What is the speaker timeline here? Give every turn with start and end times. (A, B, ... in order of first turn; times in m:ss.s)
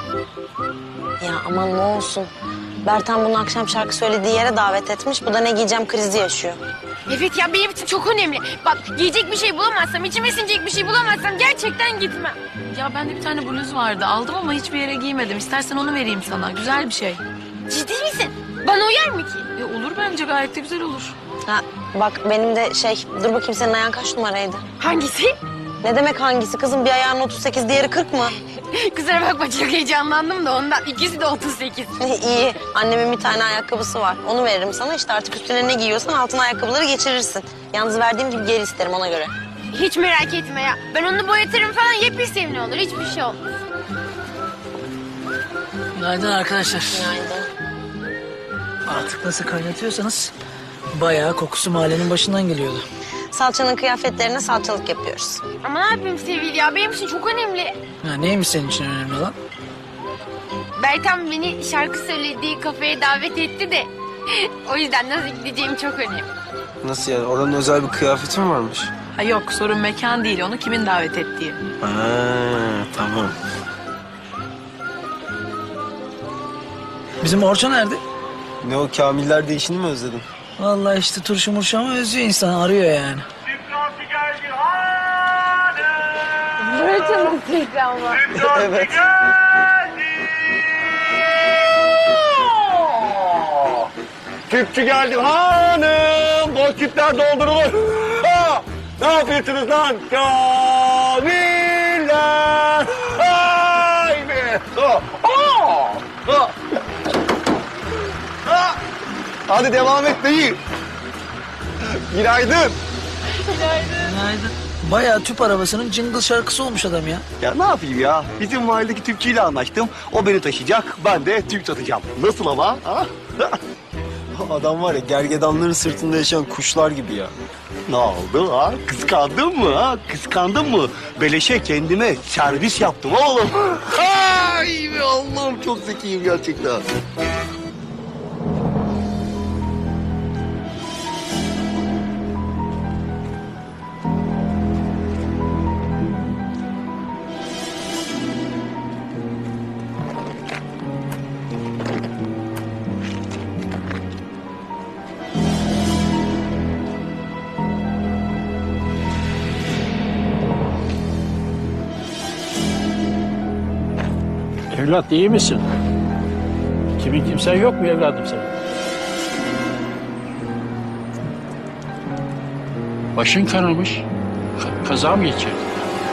0:01.2-0:02.3 A
0:02.8-0:06.6 A
0:07.1-0:12.4 B
0:12.7-0:17.2 C
0:17.7-0:19.5 B
0:19.6-0:21.2 C
0:21.5-0:24.6 A
0:24.8-0:25.4 B
0:25.8-0:28.4 A
0:28.6-0:31.9 B
0:32.0-0:39.3 A
0:39.7-0:43.6 B
0:45.9-0:47.2 D
0:46.9-0:47.5 A
0:48.9-0:50.3 D
0:50.9-0:52.8 D
0:53.3-0:55.4 A
0:55.6-0:57.8 B
0:58.0-0:59.4 D
1:00.8-1:06.3 B
1:06.8-1:08.9 E
1:09.1-1:11.6 C
1:11.8-1:13.3 E
1:17.2-1:18.0 D
1:18.6-1:20.2 E
1:20.6-1:23.3 D
1:24.4-1:25.5 F
1:26.6-1:28.4 B
1:28.4-1:28.8 E
1:29.0-1:30.2 F
1:32.1-1:33.9 F
1:34.5-1:46.5 F
1:48.5-1:48.8 F
1:49.5-1:50.6 F
1:52.1-1:52.8 F
1:54.0-1:57.2 D
1:57.4-2:03.6 F
2:04.3-2:07.3 E
2:07.9-2:16.8 F
2:44.7-2:45.6 G
2:47.0-2:48.5 G
2:53.2-2:54.0 G
2:54.6-2:55.6 G